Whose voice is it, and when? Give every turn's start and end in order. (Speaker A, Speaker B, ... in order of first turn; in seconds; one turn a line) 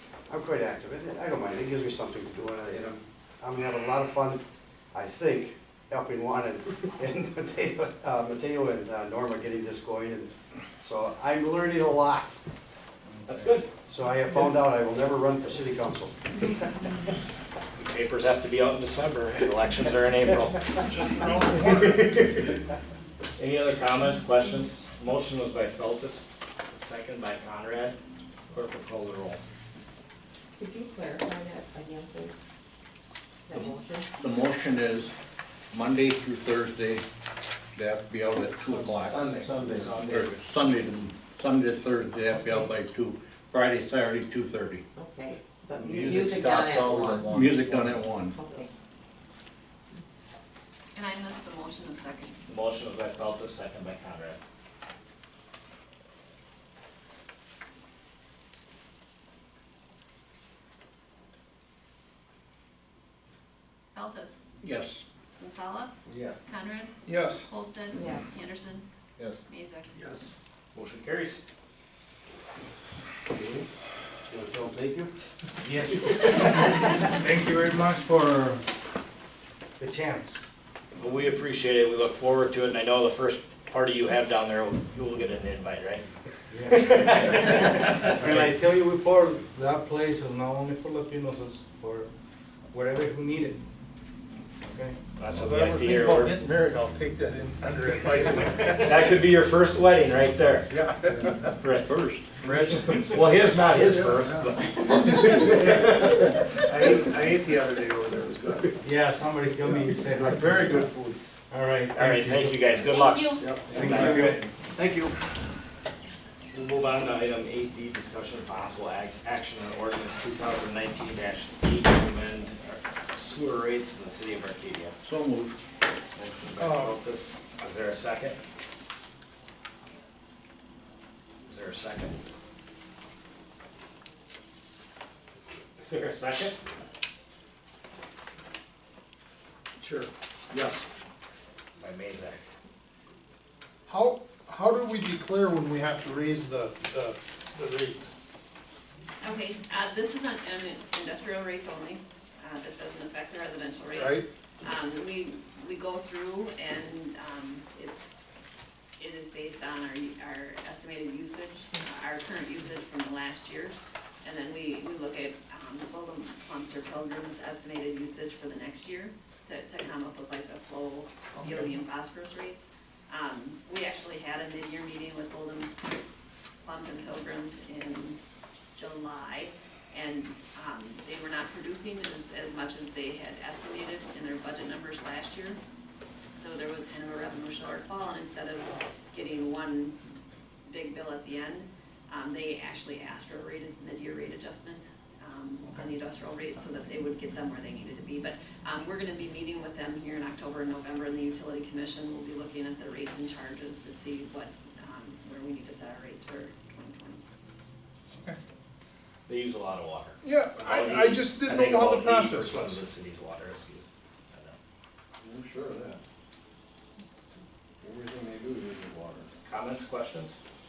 Speaker A: 0.3-12.4
Speaker B: 13.1-13.4
Speaker C: 13.3-13.7
Speaker A: 13.9-16.5
Speaker C: 17.8-22.6
Speaker D: 20.8-22.1
Speaker C: 23.4-28.0
Speaker C: 28.5-29.4
Speaker E: 30.6-32.3
Speaker E: 33.5-34.1
Speaker F: 33.5-35.1
Speaker F: 35.7-37.0
Speaker F: 37.8-39.2
Speaker G: 39.1-39.9
Speaker C: 39.1-40.7
Speaker F: 40.0-44.8
Speaker E: 42.3-42.7
Speaker E: 45.0-48.7
Speaker F: 45.9-48.4
Speaker H: 51.0-52.4
Speaker C: 52.5-54.4
Speaker H: 63.9-64.4
Speaker F: 64.6-65.0
Speaker H: 65.3-65.9
Speaker G: 66.1-66.3
Speaker H: 66.5-68.8
Speaker D: 67.1-67.5
Speaker E: 67.9-68.3
Speaker H: 69.5-70.0
Speaker G: 70.0-70.3
Speaker C: 70.7-71.4
Speaker A: 74.3-75.1
Speaker C: 75.6-76.3
Speaker B: 77.2-78.6
Speaker B: 79.8-80.5
Speaker C: 81.0-86.0
Speaker B: 86.5-92.1
Speaker C: 86.7-88.5
Speaker B: 92.7-93.6
Speaker B: 94.6-95.0
Speaker C: 95.2-96.4
Speaker D: 95.3-98.8
Speaker C: 98.7-100.7
Speaker G: 100.7-101.5
Speaker C: 101.6-102.0
Speaker F: 101.8-102.3
Speaker B: 102.4-102.7
Speaker C: 102.9-106.3
Speaker G: 103.9-104.5
Speaker G: 105.1-108.7
Speaker B: 108.8-110.9
Speaker G: 109.7-111.2
Speaker B: 111.5-112.4
Speaker C: 111.9-114.4
Speaker H: 112.9-113.5
Speaker G: 113.4-114.5
Speaker B: 113.7-114.4
Speaker A: 114.8-115.1
Speaker C: 116.5-125.0
Speaker F: 125.0-125.6
Speaker C: 126.2-128.4
Speaker D: 126.6-127.0
Speaker C: 131.5-132.2
Speaker C: 135.8-136.6
Speaker G: 139.8-140.8
Speaker C: 141.8-142.4
Speaker D: 143.9-148.1
Speaker H: 149.2-158.1
Speaker D: 153.9-154.3
Speaker H: 159.0-175.7
Speaker H: 176.6-178.2
Speaker H: 178.8-185.6
Speaker H: 186.4-190.0
Speaker H: 190.7-207.2
Speaker C: 209.3-214.6
Speaker D: 210.2-212.8
Speaker G: 215.2-216.0
Speaker G: 217.8-219.3
Speaker C: 219.5-220.4